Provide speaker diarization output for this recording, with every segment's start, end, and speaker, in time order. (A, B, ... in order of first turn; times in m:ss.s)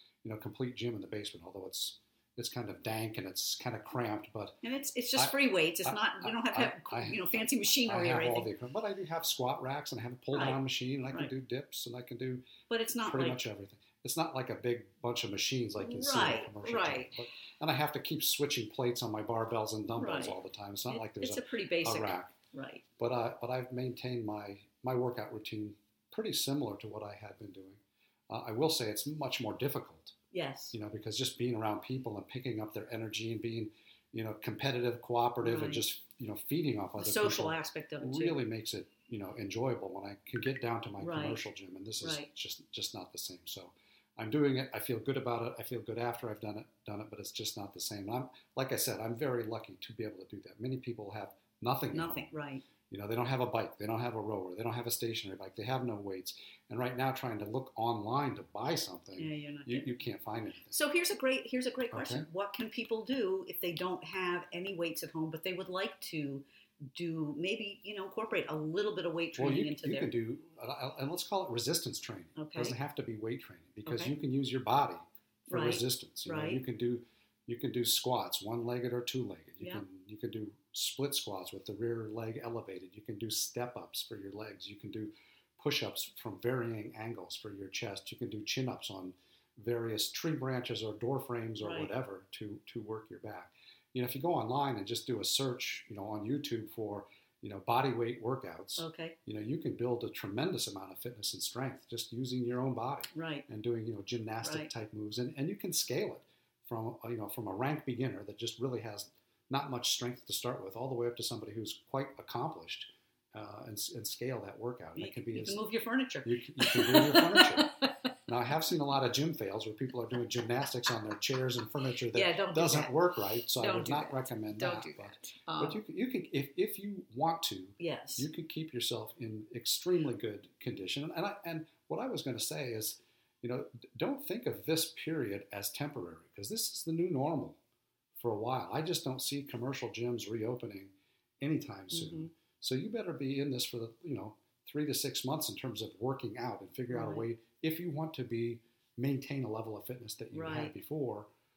0:00.2-0:04.6 A
0:04.6-0:08.5 B
0:05.2-0:07.2 A
0:07.8-0:12.5 A
0:10.3-0:10.6 B
0:12.7-0:13.4 B
0:13.0-0:22.3 A
0:15.8-0:17.2 B
0:19.9-0:20.4 B
0:20.9-0:22.8 B
0:23.0-0:30.1 A
0:30.3-0:30.7 B
0:30.7-0:52.3 A
0:35.4-0:35.8 B
0:37.0-0:38.4 B
0:41.0-0:41.4 B
0:42.0-0:42.3 B
0:51.9-0:52.6 B
0:52.9-1:00.8 A
0:59.2-0:59.9 B
1:00.7-1:10.1 B
1:01.9-1:02.2 A
1:09.4-1:55.6 A
1:12.4-1:12.8 B
1:13.8-1:14.1 B
1:15.5-1:16.6 B
1:31.6-1:31.9 B
1:38.8-1:39.1 B
1:43.1-1:43.4 B
1:44.4-1:44.7 B
1:55.0-1:57.9 B
1:56.2-1:57.7 A
1:58.3-2:17.6 A
2:02.1-2:05.8 B
2:07.8-2:08.3 B
2:18.2-2:31.3 A
2:21.9-2:22.3 B
2:26.9-2:27.2 B
2:30.3-2:30.7 B